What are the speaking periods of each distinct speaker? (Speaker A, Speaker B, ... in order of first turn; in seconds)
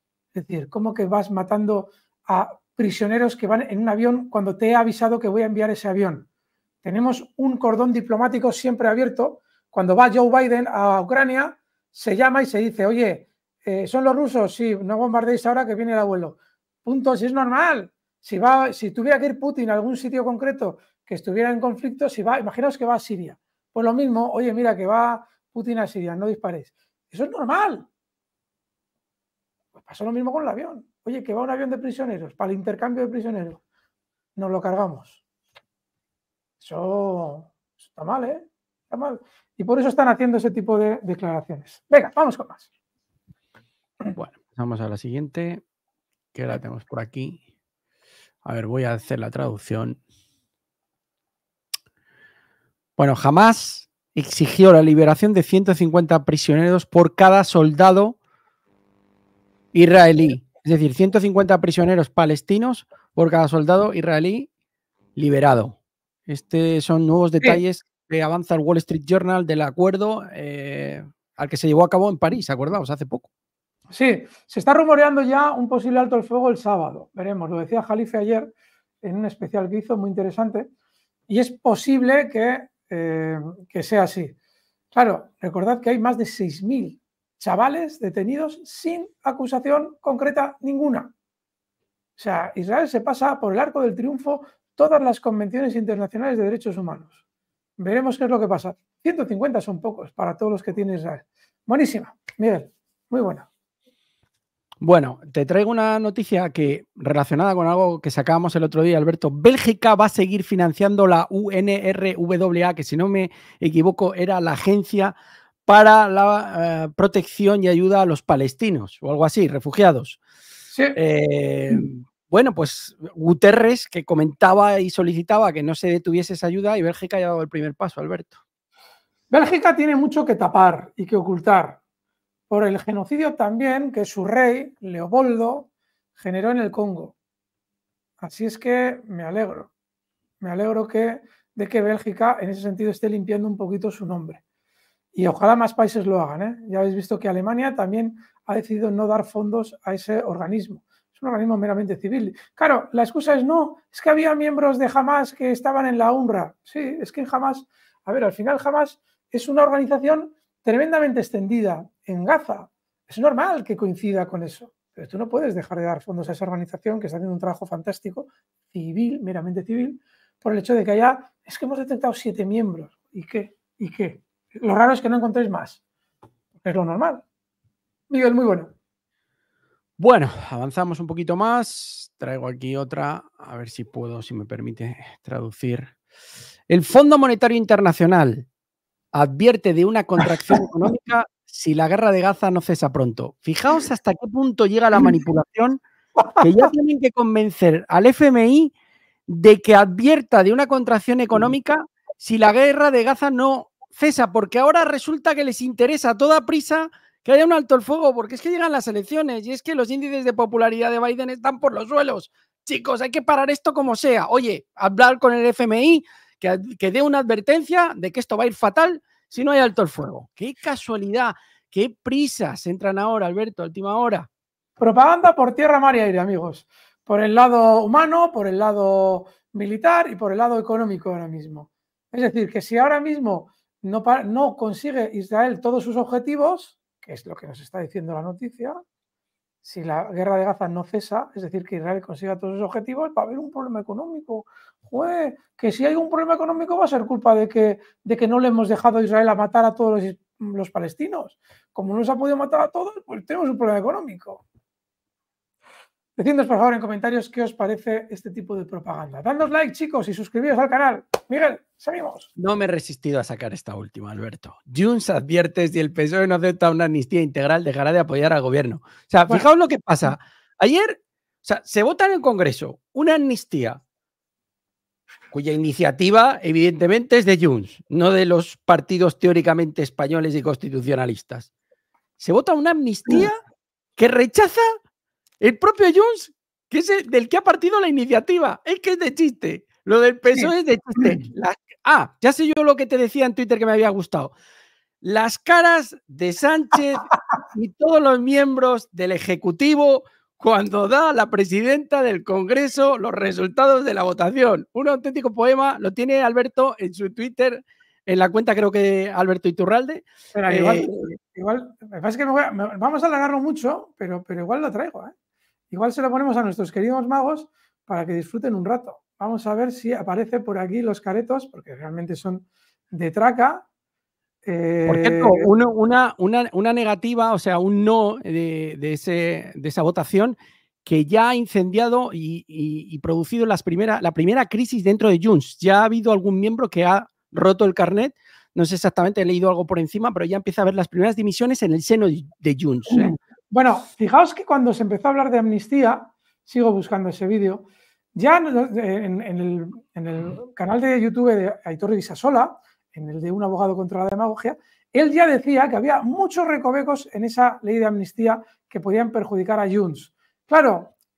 Speaker A: 0.3-6.3, 6.8-27.9, 29.8-33.6, 34.4-35.2, 36.6-42.7, 73.9-80.7, 81.3-84.4, 84.9-91.1, 92.2-97.2, 97.8-103.5, 120.7-121.0, 129.3-131.8, 132.5-137.2, 138.2-139.7, 140.4-144.4, 145.2-175.8, 176.6-177.2, 178.1-178.7, 196.2-196.7, 224.8-238.8, 239.6-254.4, 256.2-262.3, 290.3-291.3, 310.3-315.1, 315.7-323.7, 324.4-325.5, 342.9-360.9
Speaker B: 44.1-45.6, 46.3-47.4, 48.4-50.0, 53.0-58.2, 59.7-64.5, 65.2-73.3, 104.8-115.1, 115.7-120.2, 121.0-128.4, 180.0-185.9, 186.7-188.5, 189.1-195.8, 196.4-198.7, 199.3-224.3, 262.4-273.8, 275.3-281.5, 282.2-283.4, 284.0-284.6, 285.4-294.3, 295.0-311.1, 324.9-343.1